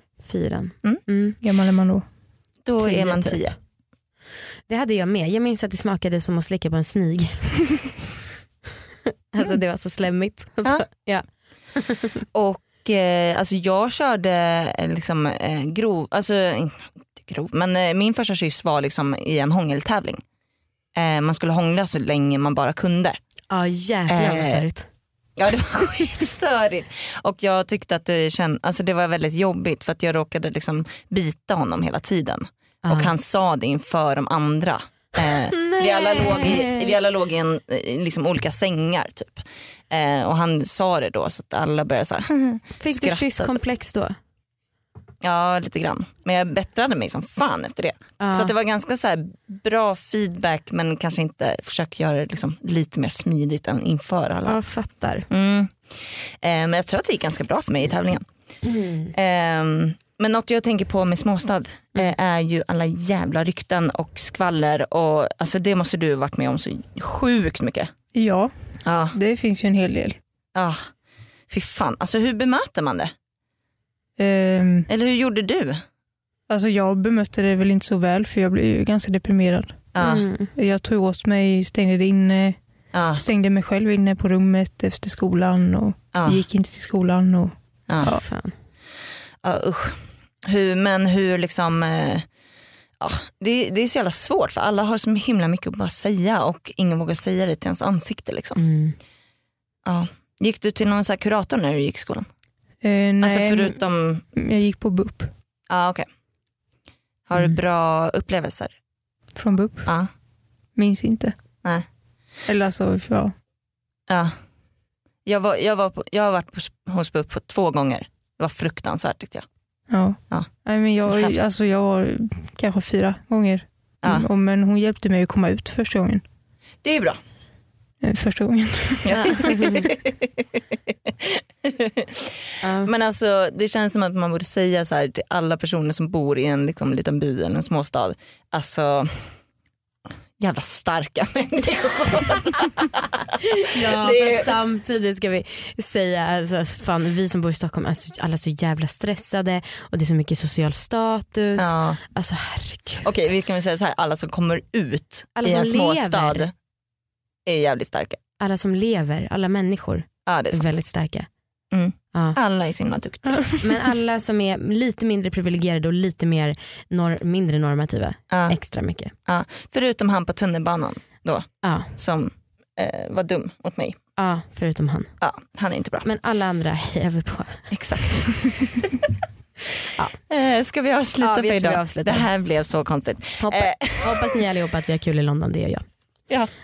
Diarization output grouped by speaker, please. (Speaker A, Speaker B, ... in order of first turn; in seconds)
Speaker A: 0.2-1.4, 2.8-3.5, 4.7-8.0, 9.3-12.2, 23.5-24.9, 32.8-33.1, 35.3-36.9, 42.8-44.1, 48.2-48.5, 54.5-55.3, 58.6-59.1, 80.0-80.5, 88.0-88.5, 98.6-99.0, 129.1-129.9, 132.6-132.9, 143.5-153.1, 155.4-156.5, 158.4-161.3, 162.1-162.4, 163.6-169.1, 171.6-171.9, 174.2-175.1, 176.0-177.7, 181.2-182.3, 183.4-185.8
Speaker B: 1.4-2.0, 68.1-68.5, 69.1-70.2, 74.2-74.9, 76.5-79.9, 80.5-88.2, 102.8-103.8, 104.3-105.3, 109.3-109.9, 110.8-111.3, 112.5-113.3, 119.9-126.2, 128.0-129.2
Speaker C: 2.6-3.5, 12.3-20.2, 20.9-23.2, 24.1-24.6, 25.4-43.6, 45.2-54.6, 55.3-55.8, 56.4-58.2, 59.1-67.9, 68.8-69.2, 71.5-73.1, 74.9-75.8, 80.0-80.2, 82.9-83.2, 86.1-86.4, 89.4-92.2, 93.0-98.6, 99.8-102.2, 103.2-104.2, 105.7-106.1, 107.3-108.7, 114.1-114.3, 115.2-119.5, 121.0-121.3, 124.0-124.3, 126.8-127.2, 129.0-130.4, 131.1-139.1, 140.4-143.3, 143.8-144.6, 151.6-152.0, 153.0-156.5, 157.5-158.2, 160.3-160.7, 161.7-163.4, 168.3-168.6, 169.3-174.0, 175.2-176.1, 177.7-178.7, 180.3-184.4